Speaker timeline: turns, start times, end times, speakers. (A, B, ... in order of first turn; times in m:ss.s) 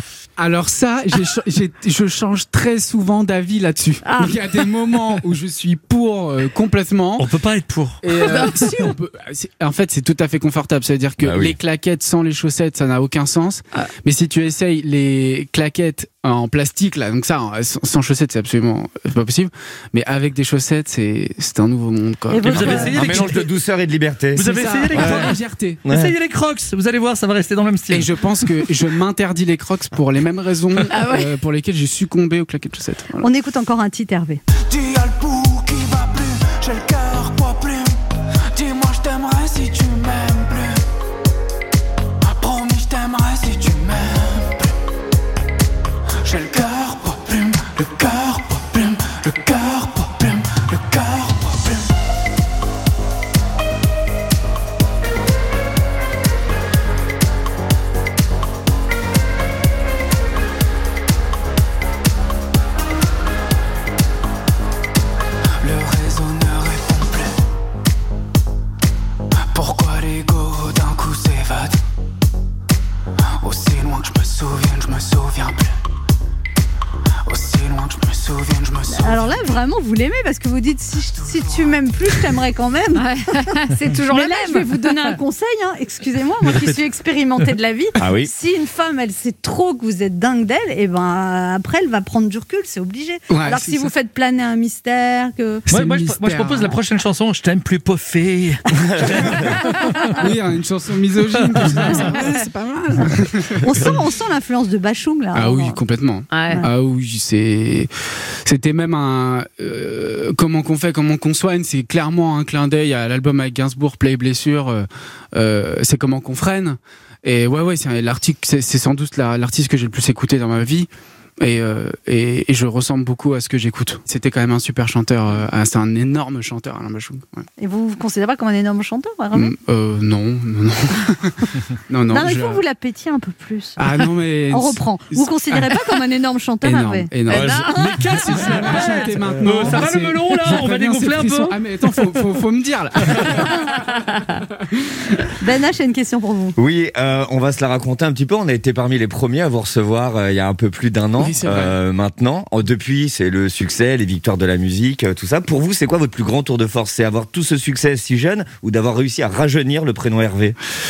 0:00.4-0:07.3 A
0:04.0-0:04.4 B
0:07.2-0:08.0 C
0:08.0-0:23.4 A
0:11.2-0:11.6 D
0:22.3-0:22.9 E
0:22.4-0:23.5 C
0:22.5-0:25.3 D
0:24.4-0:25.8 A
0:24.4-0:28.3 C
0:25.8-0:26.1 D
0:27.9-0:33.3 A
0:30.9-0:31.3 B
0:33.2-0:34.4 E
0:34.7-0:38.0 F
0:38.5-0:40.8 F
0:42.2-0:44.7 F
0:46.2-0:51.9 F
1:05.6-1:07.4 F
1:09.5-1:11.8 F
1:13.4-1:15.8 F
1:17.3-1:19.2 F
1:18.9-1:23.1 E
1:23.0-1:25.2 B
1:24.1-1:35.6 E
1:28.0-1:28.3 D
1:33.3-1:33.9 A
1:35.7-1:36.8 A
1:35.7-1:40.2 C
1:40.1-1:44.0 A
1:41.4-1:42.1 C
1:43.6-1:45.8 E
1:45.3-1:47.9 A
1:46.3-1:46.6 B
1:48.4-2:00.9 A
2:01.4-2:07.4 A
2:07.6-2:09.5 E
2:09.3-2:11.4 A
2:11.9-2:12.6 A
2:12.1-2:13.8 E
2:13.8-2:15.8 A
2:14.5-2:17.1 E
2:16.6-2:23.7 A
2:17.3-2:21.6 C
2:17.5-2:17.8 B
2:25.4-2:26.6 E
2:26.6-2:40.6 D
2:31.2-2:31.8 A